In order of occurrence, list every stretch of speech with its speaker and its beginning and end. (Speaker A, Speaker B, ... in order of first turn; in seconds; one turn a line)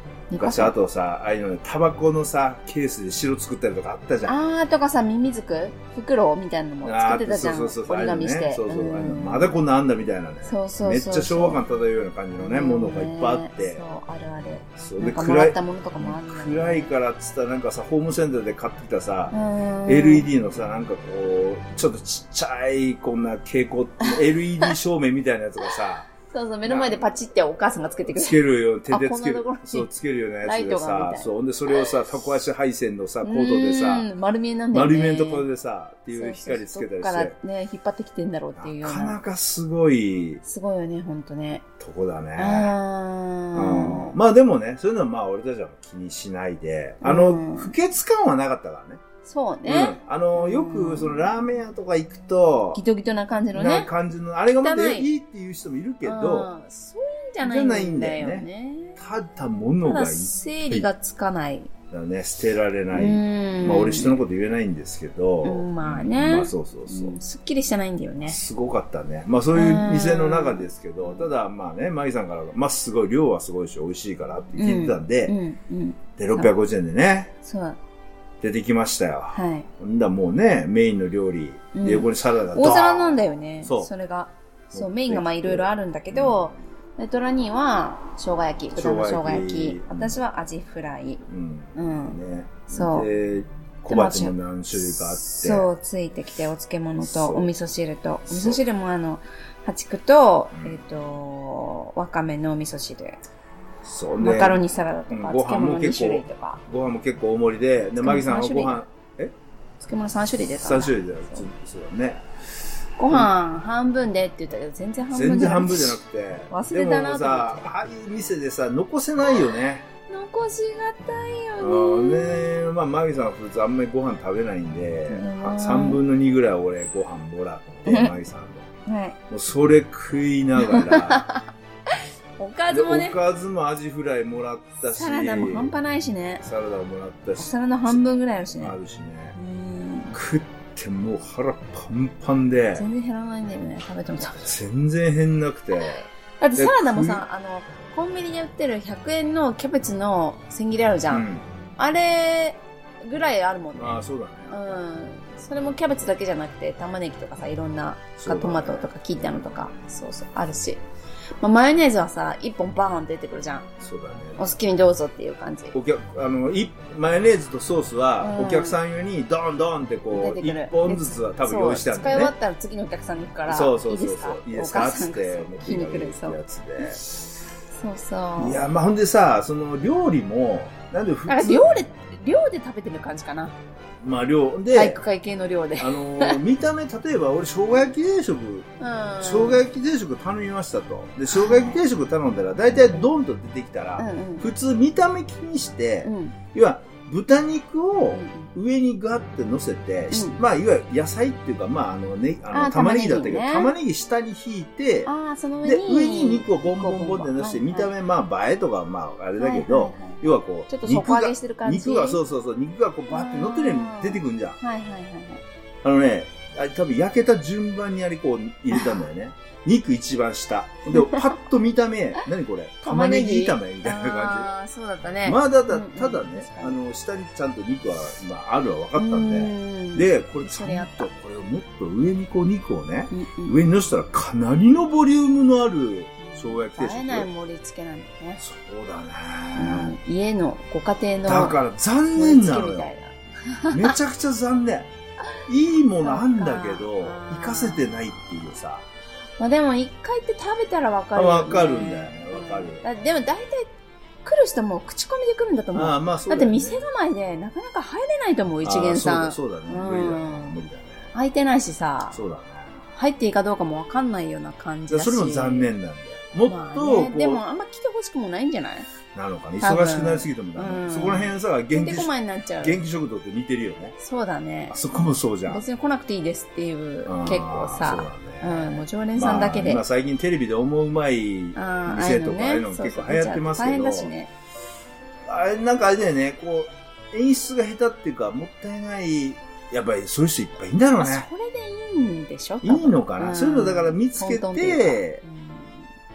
Speaker A: 0.3-0.7
Speaker B: 0.3-4.3
Speaker A: 4.2-9.6
Speaker B: 6.8-13.8
Speaker A: 10.4-11.6
Speaker A: 12.4-16.9
Speaker B: 14.8-26.1
Speaker A: 19.3-20.3
Speaker A: 24.0-24.7
Speaker A: 26.3-28.4
Speaker B: 26.6-27.0
Speaker B: 28.1-34.1
Speaker A: 28.9-29.9
Speaker A: 30.4-31.3
Speaker A: 33.2-35.4
Speaker B: 34.7-37.3
Speaker A: 36.1-39.1
Speaker B: 38.6-40.4
Speaker A: 40.4-41.6
Speaker B: 41.8-42.7
Speaker A: 42.4-44.2
Speaker B: 43.5-49.0
Speaker A: 47.0-47.7
Speaker A: 49.2-51.2
Speaker B: 49.6-52.8
Speaker A: 52.7-53.9
Speaker B: 53.5-56.5
Speaker A: 54.6-55.1
Speaker A: 56.0-59.0
Speaker B: 57.4-60.9
Speaker A: 59.8-61.7
Speaker B: 61.9-67.2
Speaker A: 62.9-64.1
Speaker A: 65.4-68.4
Speaker B: 68.2-75.3
Speaker A: 69.5-71.2
Speaker A: 74.6-76.5
Speaker B: 76.2-77.3
Speaker A: 77.4-77.8
Speaker B: 78.4-83.9
Speaker A: 79.3-79.7
Speaker A: 81.7-91.2
Speaker B: 84.7-86.6
Speaker B: 88.7-90.2
Speaker B: 91.2-95.7
Speaker A: 91.7-93.1
Speaker A: 93.9-103.2
Speaker B: 97.0-97.5
Speaker B: 98.3-98.6
Speaker B: 100.5-100.8
Speaker B: 103.8-109.3
Speaker A: 104.2-106.6
Speaker A: 108.0-108.8
Speaker A: 109.8-111.4
Speaker B: 110.6-112.2
Speaker A: 113.0-116.0
Speaker B: 115.1-119.9
Speaker A: 116.5-117.7
Speaker A: 120.0-122.5
Speaker B: 121.6-128.7
Speaker A: 125.1-126.0
Speaker A: 127.8-128.1
Speaker A: 128.8-129.2
Speaker B: 129.3-131.2
Speaker A: 130.6-133.2
Speaker B: 132.7-135.7
Speaker A: 134.9-136.4
Speaker B: 136.4-138.0
Speaker A: 137.4-138.7
Speaker B: 138.5-139.3
Speaker A: 139.3-140.1
Speaker B: 140.1-142.8
Speaker A: 142.7-144.5
Speaker B: 144.3-147.2
Speaker A: 145.7-151.2
Speaker B: 151.1-151.4
Speaker A: 151.8-160.8
Speaker B: 153.7-154.8
Speaker B: 158.2-158.9
Speaker A: 161.4-163.7
Speaker B: 163.8-164.6
Speaker A: 164.4-165.8
Speaker B: 165.7-172.3
Speaker A: 168.2-168.8
Speaker A: 170.1-176.4
Speaker B: 173.5-177.1
Speaker A: 177.7-178.6
Speaker B: 178.4-181.8
Speaker A: 181.3-183.5
Speaker B: 184.0-185.0
Speaker A: 184.7-186.4
Speaker B: 185.8-205.1
Speaker A: 188.8-189.6
Speaker A: 191.3-191.8
Speaker A: 192.8-193.1
Speaker A: 194.0-194.5
Speaker A: 196.0-196.4
Speaker A: 198.1-198.5
Speaker A: 200.1-200.4
Speaker A: 202.5-203.7
Speaker A: 205.1-207.9
Speaker B: 205.6-214.6
Speaker A: 209.4-212.2
Speaker A: 213.1-215.4
Speaker B: 215.8-224.5
Speaker A: 220.9-221.3
Speaker A: 222.8-226.8
Speaker B: 225.2-237.3
Speaker A: 228.9-231.1
Speaker A: 233.1-233.6
Speaker A: 236.2-238.4
Speaker B: 238.4-239.9
Speaker A: 239.5-241.6
Speaker B: 241.2-242.9
Speaker A: 242.1-244.0
Speaker B: 243.7-244.9
Speaker B: 245.5-248.8
Speaker A: 246.0-248.2
Speaker A: 249.4-253.7
Speaker B: 251.1-252.9
Speaker A: 254.2-260.5
Speaker B: 255.7-256.9
Speaker B: 258.6-261.1
Speaker A: 261.1-262.2
Speaker B: 262.1-262.8
Speaker A: 262.9-265.7
Speaker B: 264.9-267.4
Speaker A: 266.4-268.9
Speaker B: 269.1-272.1
Speaker A: 269.6-272.8
Speaker B: 272.6-273.9
Speaker A: 274.0-279.8
Speaker B: 274.7-275.6
Speaker B: 277.1-284.1
Speaker A: 281.5-284.3
Speaker B: 285.2-291.3
Speaker A: 291.0-295.9
Speaker B: 292.6-295.2